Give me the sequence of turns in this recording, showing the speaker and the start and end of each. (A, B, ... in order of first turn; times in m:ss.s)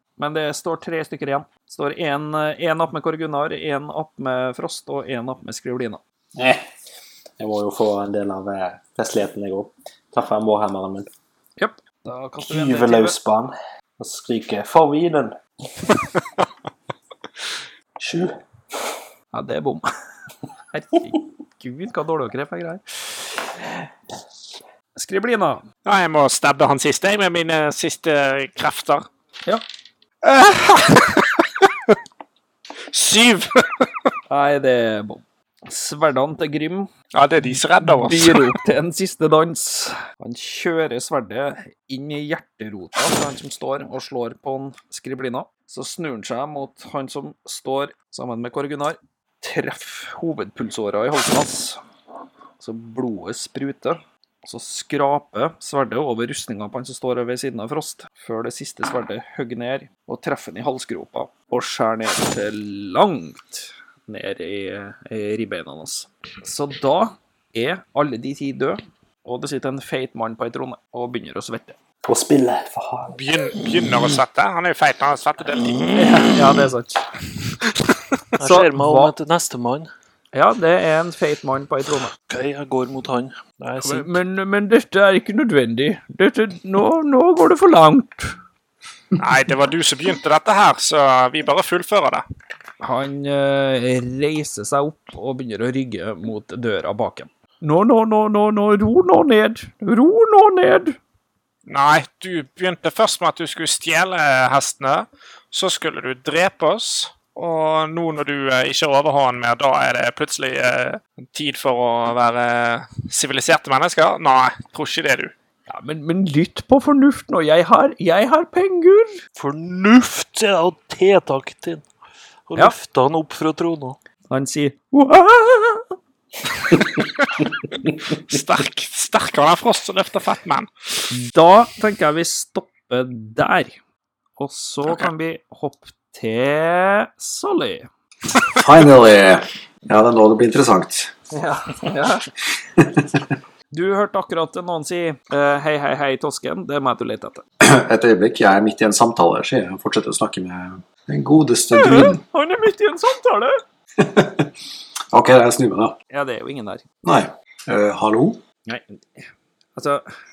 0:00.2-0:06.0 A
0:06.4-0:06.6 B
0:07.4-0:11.1 B
0:11.6-0:13.2 A
0:12.4-0:15.4 B
0:18.0-0:18.4 B
0:19.3-0:19.9 A
0:20.7-0:23.2 A
0:25.0-0:25.7 A
0:25.9-0:29.1 C
0:30.2-0:31.9 C
0:32.9-0:33.9 C
0:34.3-0:36.9 A
0:37.1-0:38.6 C
0:37.8-0:51.8 A
0:52.6-1:11.8 A
1:12.0-1:13.2 B
1:13.1-1:15.8 C
1:15.6-1:16.4 D
1:15.9-1:17.3 A
1:18.4-1:19.9 D
1:18.4-1:19.1 A
1:20.3-1:22.1 A
1:22.3-1:24.2 D
1:23.8-1:28.4 A
1:29.2-1:32.2 C
1:32.8-1:41.0 A
1:41.7-1:55.3 C
1:55.7-1:59.2 A
1:59.4-2:01.9 D
2:02.5-2:04.0 D
2:04.3-2:05.9 A
2:08.1-2:10.7 C
2:11.1-2:13.8 A
2:14.4-2:17.9 A
2:18.5-2:21.1 E
2:21.3-2:22.3 A
2:22.8-2:23.2 E
2:23.7-2:27.4 A
2:27.6-2:32.2 E
2:31.7-2:33.6 A
2:34.0-2:34.5 E
2:35.1-2:36.0 E
2:36.1-2:36.8 A
2:37.0-2:38.4 E
2:38.7-2:40.0 A